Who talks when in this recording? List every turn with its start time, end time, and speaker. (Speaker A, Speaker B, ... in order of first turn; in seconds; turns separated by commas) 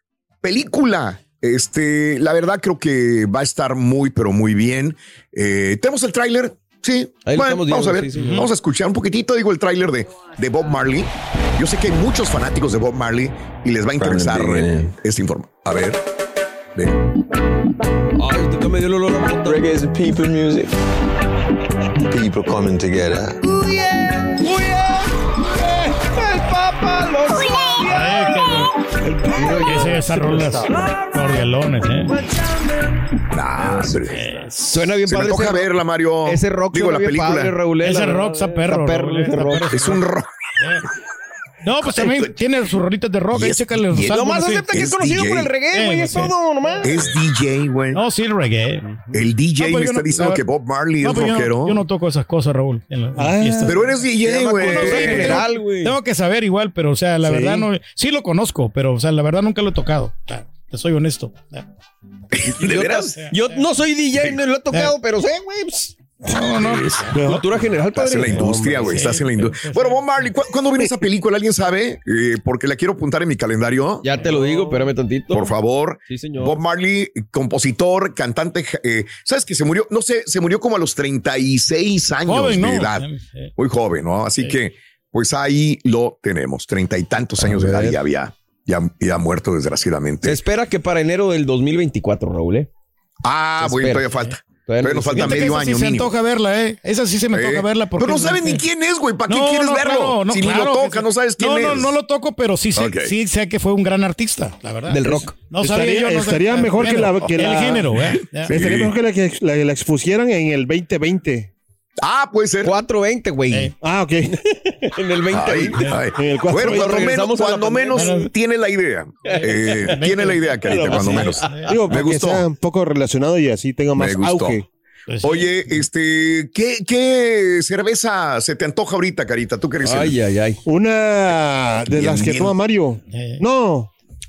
Speaker A: 0.4-16.0, Speaker B: 7.3-8.4, Speaker C: 8.1-8.5, Speaker D: 14.1-14.8, Speaker A: 16.8-17.0, Speaker B: 18.2-19.9, Speaker D: 19.9-20.7, Speaker D: 22.3-23.4, Speaker B: 23.4-28.4, Speaker C: 27.9-28.7, Speaker E: 29.1-29.6, Speaker B: 29.3-30.3, Speaker C: 29.4-32.2, Speaker A: 33.3-34.2, Speaker C: 34.1-34.9, Speaker B: 34.7-39.9, Speaker A: 35.1-37.6, Speaker C: 37.8-40.0, Speaker A: 39.7-40.3, Speaker C: 40.6-40.9, Speaker C: 41.6-44.7, Speaker A: 41.8-42.4, Speaker A: 43.3-45.5, Speaker B: 44.1-47.2, Speaker C: 45.7-46.8, Speaker A: 46.8-48.0, Speaker C: 47.9-48.9, Speaker A: 49.1-51.9, Speaker C: 49.5-50.4, Speaker C: 51.0-61.7, Speaker E: 53.2-53.9, Speaker A: 53.6-55.4, Speaker B: 54.2-56.0, Speaker E: 57.2-57.7, Speaker A: 62.3-63.1, Speaker B: 62.6-66.0, Speaker C: 63.1-63.6, Speaker C: 66.2-67.4, Speaker E: 67.1-67.5, Speaker B: 67.2-68.6, Speaker A: 68.0-74.1, Speaker C: 68.2-70.3, Speaker E: 68.3-69.1, Speaker B: 74.0-75.5, Speaker A: 75.3-90.4, Speaker B: 76.1-76.6, Speaker C: 82.2-83.5, Speaker B: 87.4-88.0, Speaker B: 90.2-92.7, Speaker A: 93.2-96.1, Speaker B: 93.6-95.5, Speaker C: 95.2-98.7, Speaker A: 97.3-102.0, Speaker C: 99.3-108.6, Speaker A: 102.8-103.2, Speaker B: 104.9-105.4, Speaker E: 105.1-107.9, Speaker A: 107.1-107.5, Speaker A: 108.1-109.0, Speaker E: 108.5-111.5, Speaker A: 112.0-112.8, Speaker B: 112.6-113.8, Speaker E: 113.8-114.4, Speaker B: 114.3-118.2, Speaker A: 115.3-122.5, Speaker E: 116.2-117.2, Speaker C: 117.9-118.3, Speaker C: 119.2-121.8, Speaker B: 119.4-120.0, Speaker E: 120.6-124.7, Speaker B: 120.8-121.7, Speaker A: 124.0-124.6, Speaker C: 125.1-125.6, Speaker A: 125.2-130.2, Speaker B: 129.8-130.6, Speaker E: 130.7-133.9, Speaker A: 131.9-132.6, Speaker C: 133.1-133.4